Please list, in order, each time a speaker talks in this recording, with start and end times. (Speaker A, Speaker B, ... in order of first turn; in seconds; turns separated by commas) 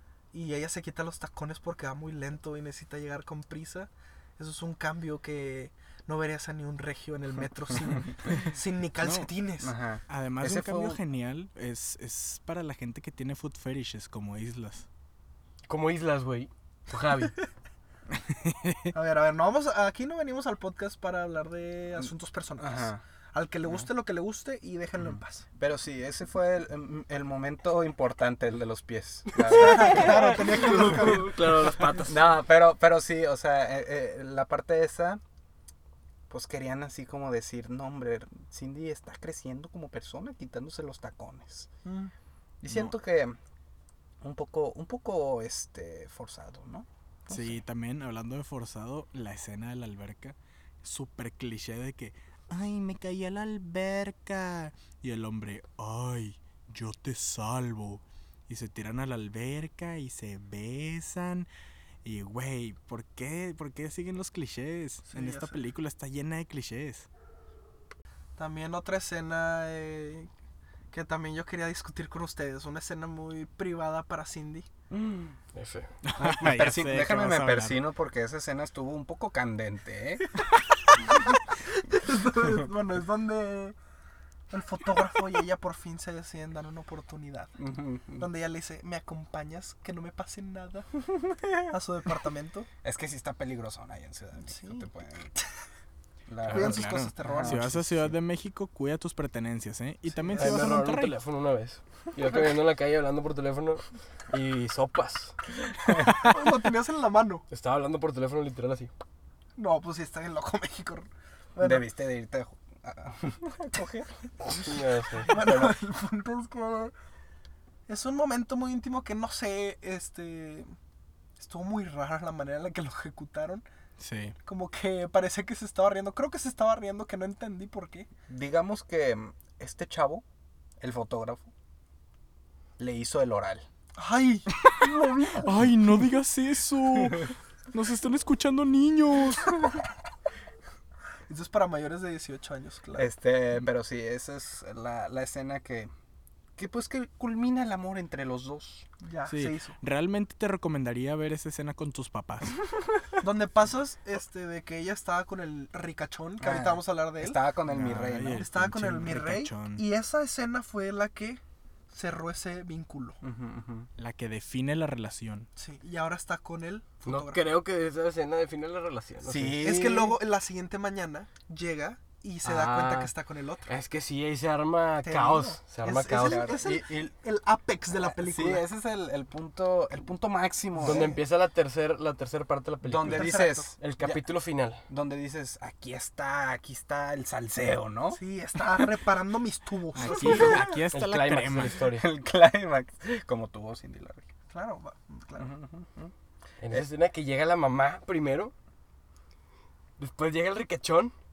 Speaker A: 0.3-9.7, Speaker B: 9.0-9.3, Speaker C: 9.6-11.0, Speaker B: 10.1-14.9, Speaker D: 15.7-17.4, Speaker B: 18.1-18.9, Speaker A: 18.9-25.4, Speaker C: 22.6-23.0, Speaker C: 25.6-31.1, Speaker D: 29.3-32.3, Speaker A: 29.5-31.8, Speaker C: 32.0-35.2, Speaker C: 36.3-41.7, Speaker A: 41.9-42.1, Speaker C: 42.6-43.4, Speaker B: 42.7-42.9, Speaker C: 44.2-47.6, Speaker B: 47.3-61.5, Speaker B: 62.0-67.1, Speaker A: 65.1-65.6, Speaker A: 68.4-70.3, Speaker A: 70.9-74.7, Speaker C: 74.9-75.4, Speaker D: 75.5-75.9, Speaker B: 76.0-77.8, Speaker C: 76.2-80.3, Speaker A: 81.0-83.8, Speaker A: 84.5-87.5, Speaker C: 87.6-88.3, Speaker A: 88.2-90.9, Speaker A: 91.7-92.7, Speaker C: 92.8-95.3, Speaker A: 94.4-95.5, Speaker C: 96.3-98.1, Speaker B: 96.4-101.2, Speaker A: 96.5-97.7, Speaker A: 100.1-100.7, Speaker D: 100.4-105.4, Speaker A: 106.0-107.5, Speaker D: 107.5-108.9, Speaker A: 109.6-111.8, Speaker C: 111.6-114.7, Speaker D: 114.5-115.4, Speaker A: 115.2-116.9, Speaker C: 115.3-115.8, Speaker A: 117.9-120.7, Speaker A: 121.4-123.7, Speaker B: 124.0-124.3, Speaker A: 124.5-128.1, Speaker C: 128.3-130.2, Speaker C: 130.8-131.5, Speaker C: 132.8-133.7, Speaker A: 134.0-135.5, Speaker B: 135.4-139.8, Speaker A: 141.3-143.1, Speaker C: 142.9-145.9, Speaker C: 146.6-148.9, Speaker A: 149.0-149.8, Speaker B: 149.3-152.6, Speaker A: 153.2-157.4, Speaker C: 156.4-158.4, Speaker B: 157.7-159.8, Speaker A: 158.3-163.2, Speaker C: 163.2-163.9, Speaker B: 164.0-165.5, Speaker A: 165.6-167.4, Speaker D: 167.1-169.6, Speaker C: 169.2-170.2, Speaker A: 169.6-173.7, Speaker D: 172.4-173.1, Speaker D: 173.7-176.5, Speaker A: 175.0-178.7, Speaker C: 176.2-177.2, Speaker C: 177.9-181.2, Speaker D: 180.8-184.8, Speaker C: 182.8-184.2, Speaker A: 183.0-183.7, Speaker C: 184.9-188.2, Speaker A: 188.1-190.7, Speaker B: 189.9-191.8, Speaker C: 190.2-190.8, Speaker D: 190.5-192.1, Speaker C: 191.9-194.2, Speaker A: 194.5-195.5, Speaker C: 195.4-196.1, Speaker D: 196.6-198.5, Speaker D: 200.0-201.1